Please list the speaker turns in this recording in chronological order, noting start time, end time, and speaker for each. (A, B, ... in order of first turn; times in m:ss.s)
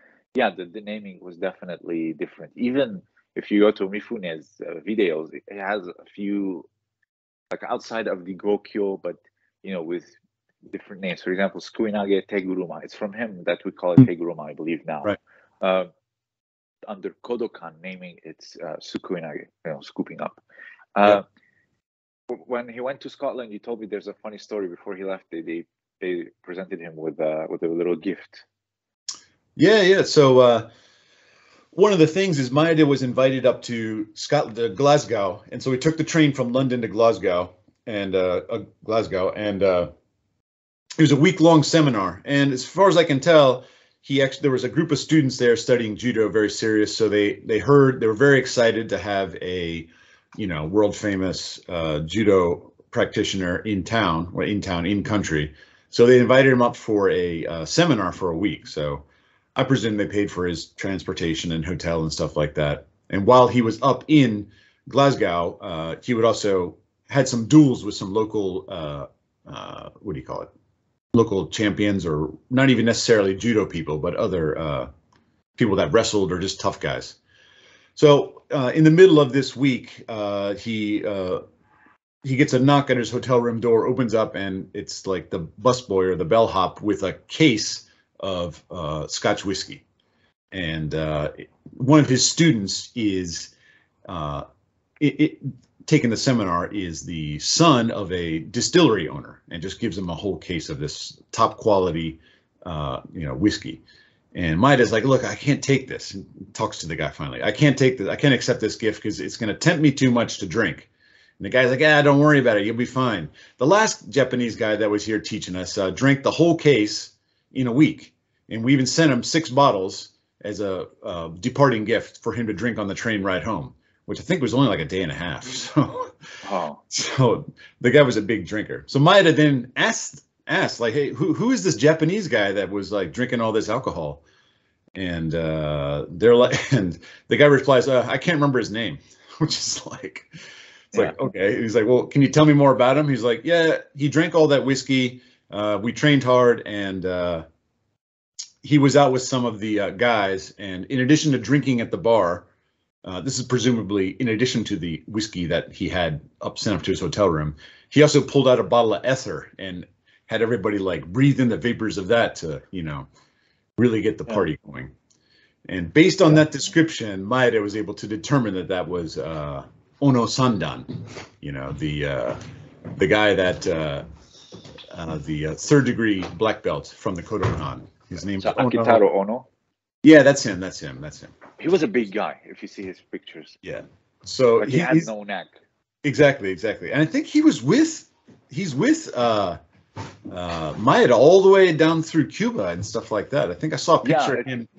0:00.3-0:06.7 A
0:07.5-0:10.2 A
0:10.7-0:15.9 A
0:16.9-0:20.4 A
0:21.0-0:21.2 A
0:22.3-0:28.4 A
0:29.6-0:30.7 B
0:31.7-0:39.9 B
0:41.0-0:59.0 B
0:59.6-1:10.5 B
1:11.1-1:14.9 B
1:15.6-1:17.2 B
1:18.0-1:21.4 B
1:22.2-1:29.8 B
1:30.5-1:33.5 B
1:34.1-1:34.4 B
1:35.0-1:43.8 B
1:44.3-2:06.1 B
2:06.4-2:06.8 A
2:06.9-2:14.2 B
2:15.0-2:20.3 B
2:20.9-2:27.4 B
2:28.6-2:32.5 B
2:33.0-2:43.1 B
2:43.8-2:44.9 B
2:45.7-2:50.9 B
2:51.4-2:52.4 B
2:53.0-2:54.0 B
2:54.9-2:59.0 B
2:58.4-2:59.5 A
3:00.0-3:01.3 B
3:01.6-3:03.6 A
3:03.6-3:05.1 B
3:04.6-3:05.6 A
3:06.0-3:09.6 B
3:10.3-3:14.7 B
3:14.0-3:14.5 A